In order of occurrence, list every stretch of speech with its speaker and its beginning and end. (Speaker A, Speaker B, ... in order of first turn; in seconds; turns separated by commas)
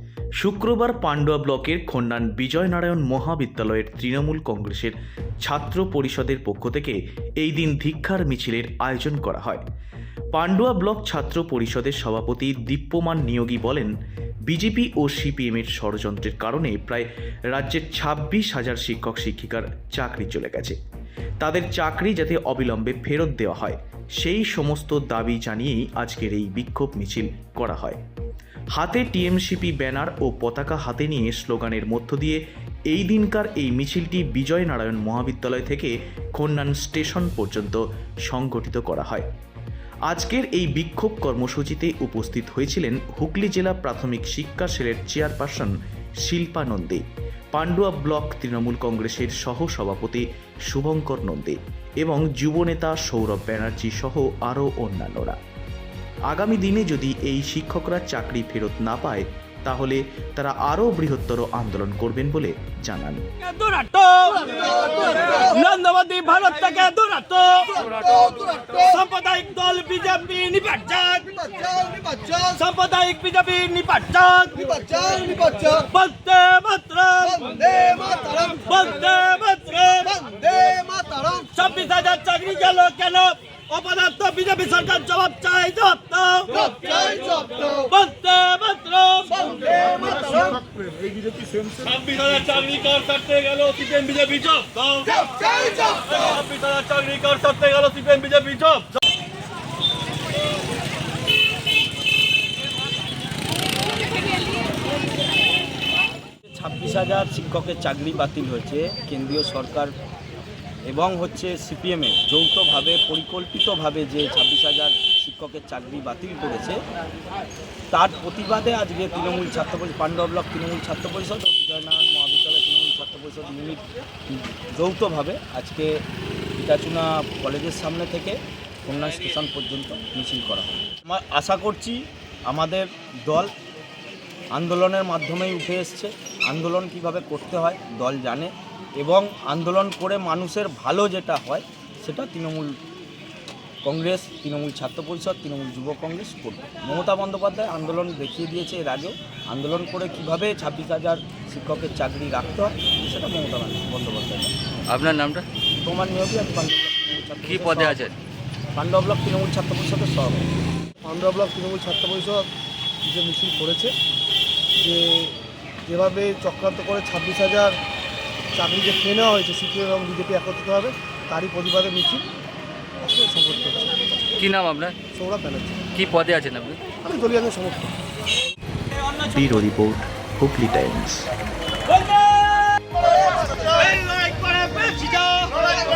Speaker A: 0.4-9.6, Speaker A: 10.3-13.9, Speaker A: 14.5-20.8, Speaker A: 21.4-28.0, Speaker A: 28.7-39.2, Speaker A: 40.1-45.7, Speaker A: 46.2-55.4, Speaker A: 56.3-63.2, Speaker B: 63.4-90.6, Speaker B: 91.6-98.8, Speaker C: 106.5-109.9, Speaker C: 110.8-116.8, Speaker C: 117.9-123.9, Speaker C: 124.5-125.9, Speaker C: 126.6-133.5, Speaker C: 134.5-142.7, Speaker C: 143.8-154.5, Speaker D: 154.9-155.4, Speaker C: 155.8-158.1, Speaker D: 157.4-158.1, Speaker C: 158.7-160.5, Speaker E: 161.0-162.5, Speaker E: 163.1-163.9, Speaker E: 164.8-167.8, Speaker E: 168.5-172.2, Speaker E: 173.0-173.9, Speaker D: 174.4-174.9, Speaker E: 175.1-175.8, Speaker D: 175.9-176.8, Speaker E: 177.0-177.9, Speaker A: 179.2-181.3, Speaker C: 183.6-185.5, Speaker B: 184.5-185.8